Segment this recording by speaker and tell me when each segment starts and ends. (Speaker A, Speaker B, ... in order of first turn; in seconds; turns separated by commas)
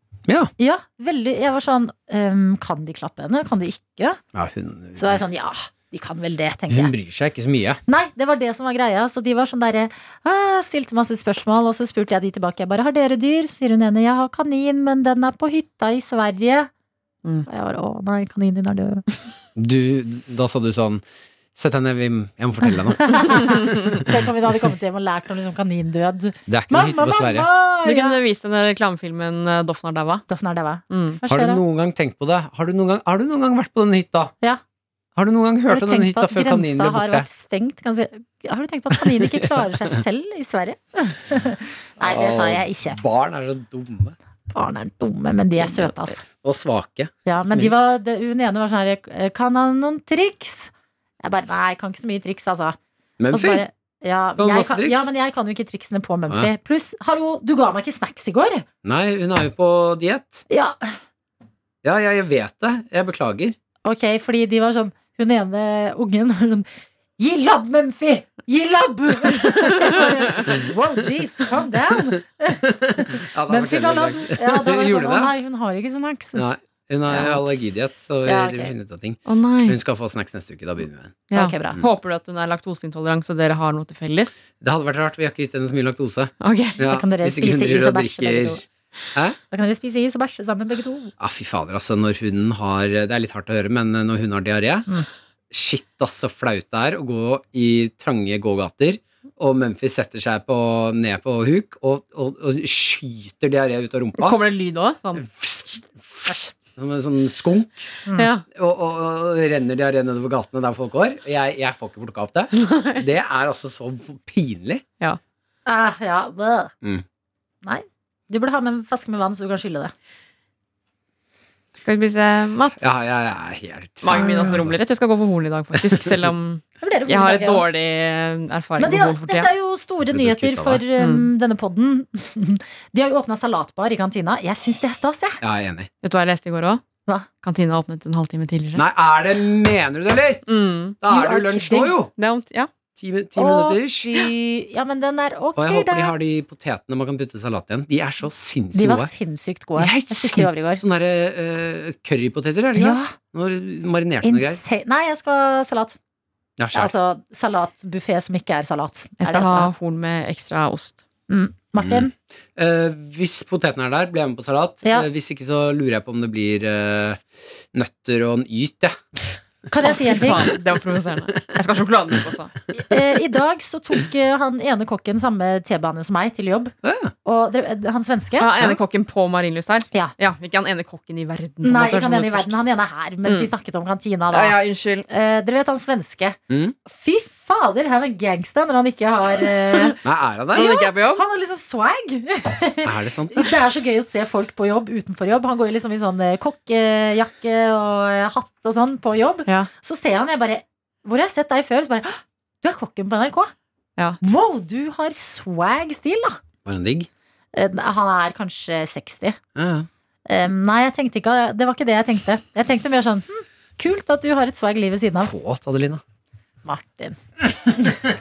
Speaker A: 0.6-4.2, Speaker B: 4.3-5.2, Speaker A: 5.0-6.9, Speaker B: 6.7-7.8, Speaker A: 7.9-16.7, Speaker A: 17.5-19.0, Speaker B: 19.6-21.0, Speaker B: 21.6-24.0, Speaker A: 23.0-28.2, Speaker B: 26.5-27.5, Speaker C: 27.9-30.2, Speaker A: 30.3-31.6, Speaker C: 30.9-31.2, Speaker B: 31.3-34.3, Speaker B: 35.2-37.3, Speaker A: 35.7-43.0, Speaker B: 39.0-39.5, Speaker B: 42.0-44.2, Speaker A: 44.5-46.2, Speaker B: 46.2-48.0, Speaker A: 47.2-50.7, Speaker A: 51.2-52.8, Speaker B: 53.2-53.6, Speaker A: 53.3-58.6, Speaker B: 54.4-55.1, Speaker B: 58.8-60.5, Speaker A: 60.5-60.9, Speaker B: 61.8-63.6, Speaker A: 63.9-66.7, Speaker A: 67.2-76.5, Speaker B: 72.6-75.3, Speaker B: 76.3-81.2, Speaker A: 77.1-77.4, Speaker A: 78.2-78.7, Speaker C: 79.3-79.8, Speaker C: 81.3-84.4, Speaker A: 81.3-81.8, Speaker B: 84.6-88.6, Speaker C: 86.4-86.8, Speaker A: 86.8-88.6, Speaker A: 89.5-91.1, Speaker B: 91.2-94.9, Speaker B: 95.5-104.4, Speaker C: 104.2-105.2, Speaker B: 105.2-107.9, Speaker C: 108.2-108.5, Speaker B: 108.5-114.8, Speaker C: 112.5-113.0, Speaker A: 115.7-116.7, Speaker A: 117.6-119.9, Speaker C: 121.8-122.8, Speaker B: 122.8-124.8, Speaker C: 124.0-129.5, Speaker A: 126.8-127.7, Speaker A: 128.8-135.4, Speaker B: 130.1-130.8, Speaker C: 131.0-131.3, Speaker B: 135.4-135.9, Speaker C: 136.0-136.8, Speaker C: 137.4-138.9, Speaker B: 138.8-140.4, Speaker C: 140.5-141.0, Speaker B: 141.0-142.1, Speaker A: 141.1-141.9, Speaker C: 142.1-142.7, Speaker B: 143.0-144.1, Speaker A: 143.4-146.1, Speaker B: 145.6-149.1, Speaker A: 148.7-150.8, Speaker B: 149.8-154.6, Speaker A: 152.8-153.1, Speaker A: 154.2-156.0, Speaker B: 156.6-156.9, Speaker A: 156.7-159.7, Speaker C: 159.2-161.0, Speaker A: 161.3-162.1, Speaker B: 161.8-169.0, Speaker A: 169.7-170.5, Speaker C: 169.8-172.8, Speaker A: 172.9-178.5, Speaker B: 176.8-177.1, Speaker C: 178.4-182.5, Speaker A: 181.6-190.0, Speaker C: 183.2-183.5, Speaker C: 184.3-185.1, Speaker B: 186.5-186.8, Speaker B: 190.0-190.8, Speaker C: 190.5-191.2, Speaker A: 190.6-203.5, Speaker B: 192.8-193.5, Speaker A: 204.2-206.4, Speaker B: 206.7-207.1, Speaker A: 207.5-209.4, Speaker B: 209.6-209.9, Speaker A: 210.3-215.3, Speaker B: 215.2-216.0, Speaker A: 216.7-217.2